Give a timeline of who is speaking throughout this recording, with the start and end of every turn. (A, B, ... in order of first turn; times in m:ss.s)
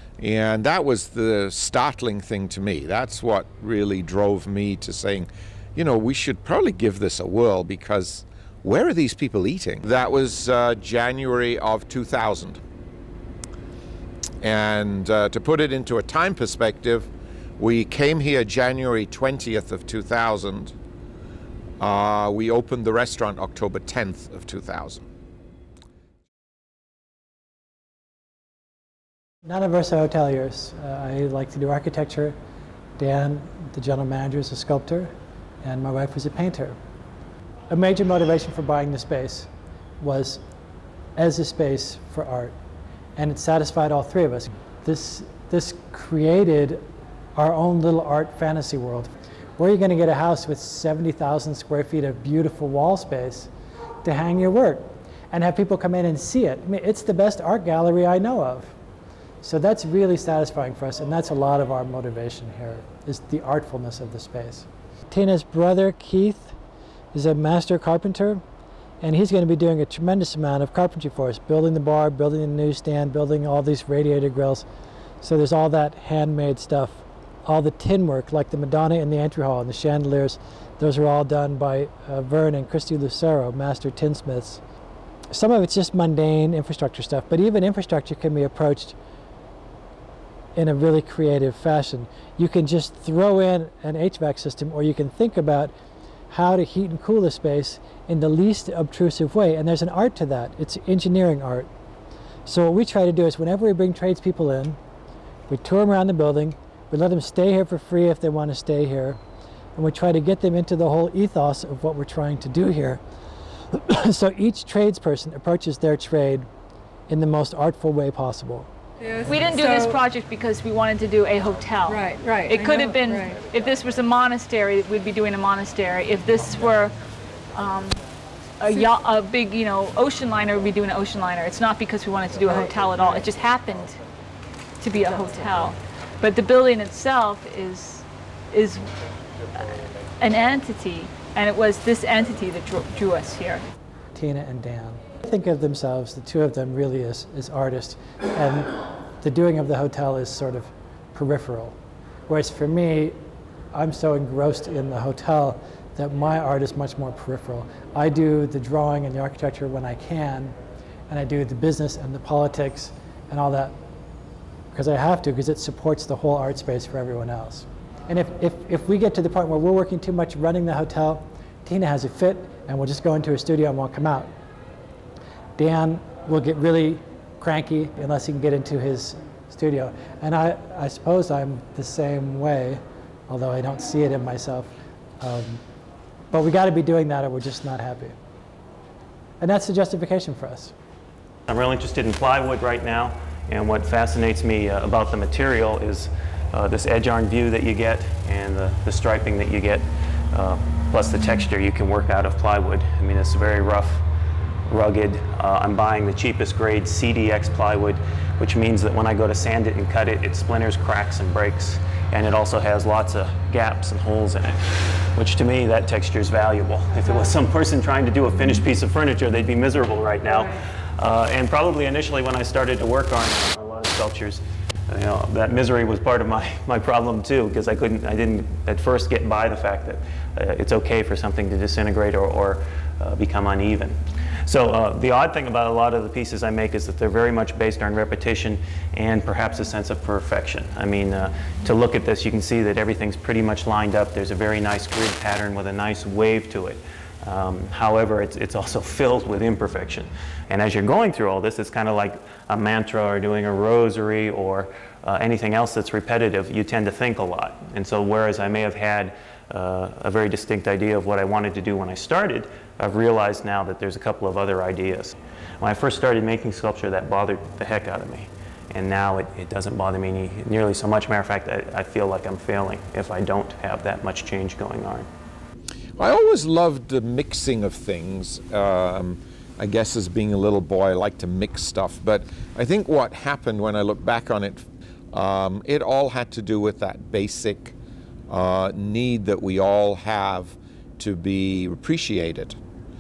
0:00.2-0:12.6 A
0:14.4-0:20.7 A
0:21.8-0:25.1 A
0:29.5-0:32.4 B
0:33.0-0:36.8 B
0:37.7-0:40.4 B
0:41.2-0:42.6 B
0:43.2-0:46.8 B
0:47.4-0:53.5 B
0:54.0-0:58.8 B
0:59.4-1:06.6 B
1:07.1-1:08.4 B
1:09.0-1:14.7 B
1:15.2-1:24.6 B
1:25.3-1:29.0 B
1:30.6-1:35.7 B
1:36.3-1:41.7 B
1:42.5-1:44.8 B
1:45.5-1:49.2 B
1:49.8-1:53.0 B
1:53.7-1:56.5 B
1:57.1-1:58.7 B
1:59.0-2:00.0 C
1:59.3-2:07.0 D
2:01.9-2:03.4 C
2:07.5-2:08.0 D
2:08.6-2:14.0 D
2:08.7-2:09.0 C
2:12.5-2:13.3 C
2:14.8-2:18.9 D
2:15.0-2:15.5 C
2:20.2-2:23.6 D
2:24.1-2:31.8 B
2:32.3-2:33.2 B
2:33.7-2:40.6 B
2:41.1-2:43.8 B
2:44.7-2:54.3 B
2:55.6-3:05.6 B
3:06.3-3:08.2 B
3:09.4-3:10.7 B
3:11.5-3:24.0 E
3:24.7-4:35.1 E
3:40.3-3:40.6 C
4:36.0-4:47.8 A
4:48.3-4:52.6 A